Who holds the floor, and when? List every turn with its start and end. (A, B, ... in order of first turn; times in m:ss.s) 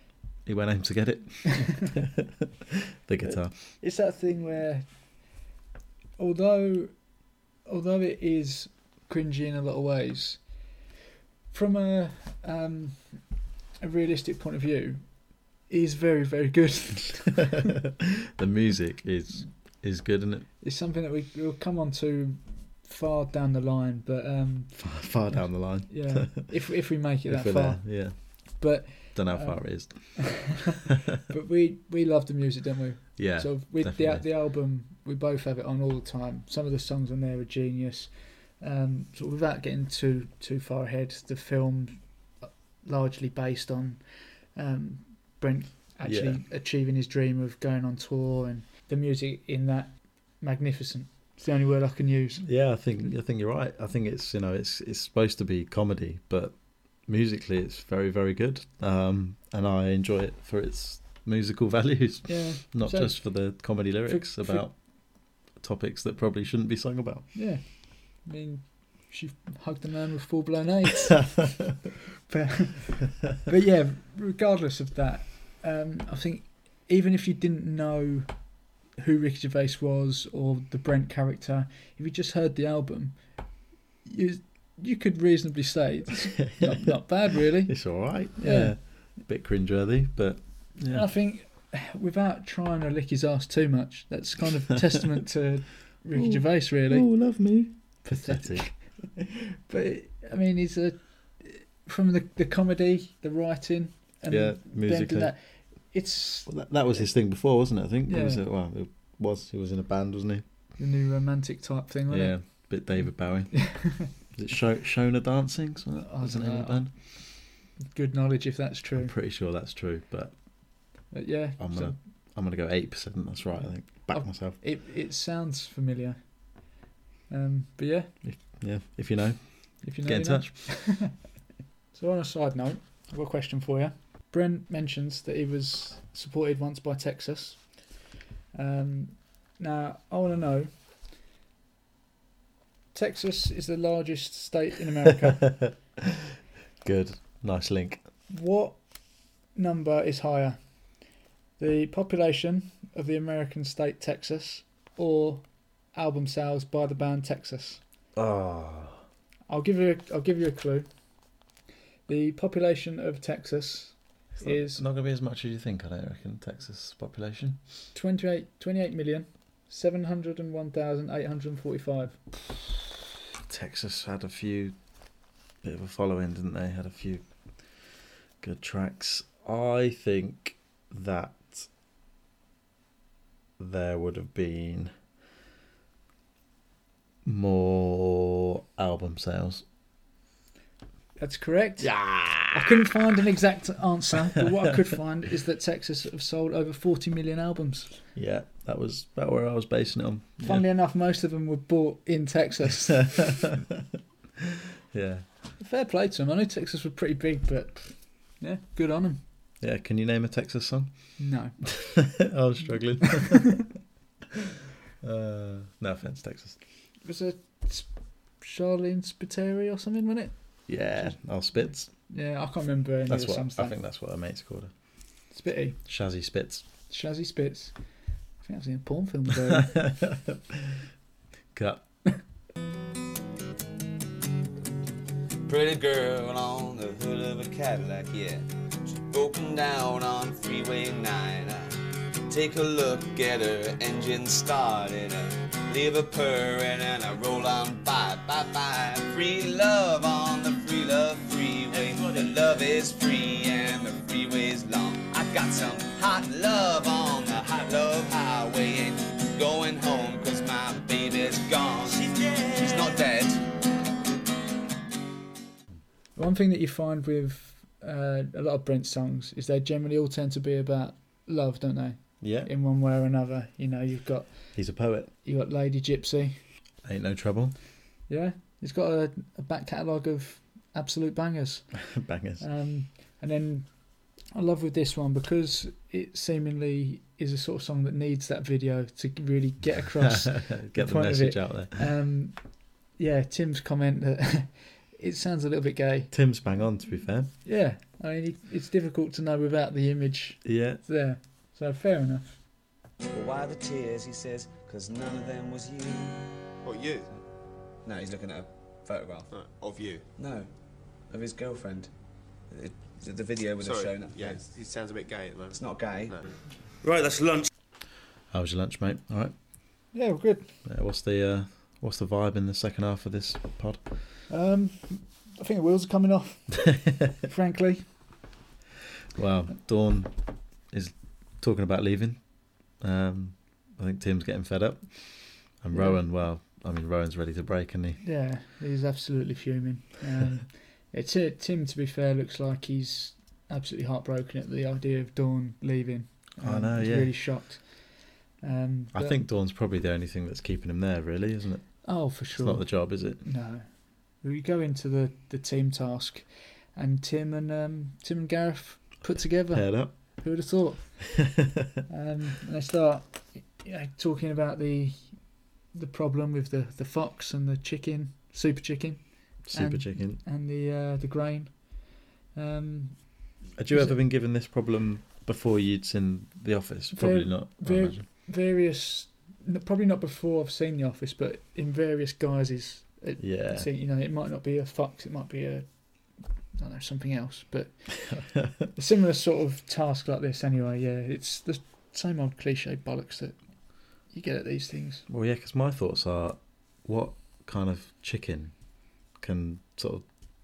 0:00.4-0:02.3 A
0:03.0-0:03.5 A
0:03.8-0:04.8 B
0:06.2-0:06.9 B
0:07.6-0:10.4 B
0:11.5-0:13.2 B
0:13.8-0:17.6 B
0:17.8-0:20.5 A
0:20.6-0:30.5 B
0:24.8-0:26.6 A
0:27.2-0:30.6 A
0:31.3-0:44.0 B
0:33.2-0:34.3 A
0:44.5-0:52.5 B
0:46.0-0:46.4 A
0:52.4-1:07.3 A
1:02.2-1:04.7 B
1:07.3-1:11.6 B
1:12.3-1:18.3 B
1:19.0-1:23.2 B
1:24.0-1:28.7 B
1:26.4-1:26.9 A
1:27.6-1:31.1 A
1:30.9-1:37.1 B
1:36.1-1:38.7 A
1:38.2-1:38.8 B
1:39.5-1:46.5 B
1:44.3-1:45.3 A
1:46.5-1:50.4 A
1:48.1-1:48.4 B
1:50.8-1:52.7 B
1:52.1-1:56.9 A
1:53.5-1:54.1 B
1:56.0-1:57.1 B
1:57.9-1:59.1 B
1:59.0-2:00.4 A
2:01.1-2:02.0 B
2:01.6-2:04.6 A
2:03.6-2:06.2 B
2:07.3-2:08.1 B
2:08.2-2:10.5 A
2:09.8-2:11.2 B
2:11.9-2:17.8 B
2:18.5-2:20.7 B
2:22.9-2:25.6 B
2:25.3-2:25.7 A
2:26.8-2:28.0 A
2:28.3-2:28.8 B
2:29.5-2:30.6 B
2:31.6-2:37.8 B
2:38.2-2:39.0 A
2:39.5-2:40.9 B
2:42.1-2:44.8 B
2:44.4-2:47.6 A
2:47.9-2:52.3 B
2:53.5-2:54.8 A
2:55.6-2:57.2 A
2:58.4-3:01.7 A
3:03.6-3:04.9 A
3:07.2-3:09.6 A
3:11.2-3:18.0 B
3:11.8-3:12.9 A
3:18.1-3:20.6 A
3:20.4-3:23.4 B
3:23.0-3:23.8 A
3:24.9-3:25.2 A
3:25.6-3:29.2 B
3:29.6-3:30.9 A
3:31.2-3:31.6 B
3:31.6-3:33.7 A
3:35.0-3:36.6 A
3:37.0-3:40.3 B
3:40.7-3:41.9 A
3:42.1-3:43.8 B
3:43.1-3:44.7 A
3:45.3-3:45.8 B
3:45.8-3:46.7 A
3:46.9-3:47.7 B
3:48.4-3:49.8 B
3:49.5-3:50.8 A
3:51.5-3:51.8 A
3:55.4-4:01.8 C
4:02.3-4:23.4 C
4:11.7-4:12.3 D
4:21.9-4:22.9 D
4:26.2-4:34.6 B
4:32.2-4:32.5 A
4:34.5-4:35.1 A
4:35.2-4:36.4 B
4:36.8-4:37.5 A
4:38.1-4:41.7 B
4:41.8-4:42.4 A
4:42.4-4:43.7 B
4:44.3-4:56.1 B
4:50.0-4:51.9 A
4:56.1-4:57.3 A
4:57.4-5:02.4 B
5:00.4-5:00.8 A
5:03.1-5:06.3 C
5:06.6-5:07.1 E
5:07.8-5:09.3 C
5:09.3-5:10.0 E
5:10.2-5:10.5 C
5:11.1-5:11.9 C
5:12.5-5:14.5 C
5:13.6-5:16.3 E
5:15.5-5:16.2 C
5:16.8-5:17.5 D
5:18.3-5:19.3 A
5:19.9-5:20.5 B
5:20.6-5:23.9 A
5:24.3-5:27.8 B
5:29.1-5:30.1 A
5:30.7-5:38.0 A
5:35.7-5:36.0 B
5:38.0-5:49.2 B
5:46.4-5:47.2 A
5:48.9-5:53.2 A
5:51.8-6:01.3 B
5:59.5-5:59.9 A
6:01.2-6:01.7 A
6:01.9-6:05.2 B
6:05.7-6:14.0 B
6:09.4-6:10.2 A
6:13.6-6:18.0 A
6:16.9-6:25.7 B
6:23.2-6:23.7 A
6:26.5-6:35.0 B
6:35.1-6:38.5 A
6:39.2-6:40.0 A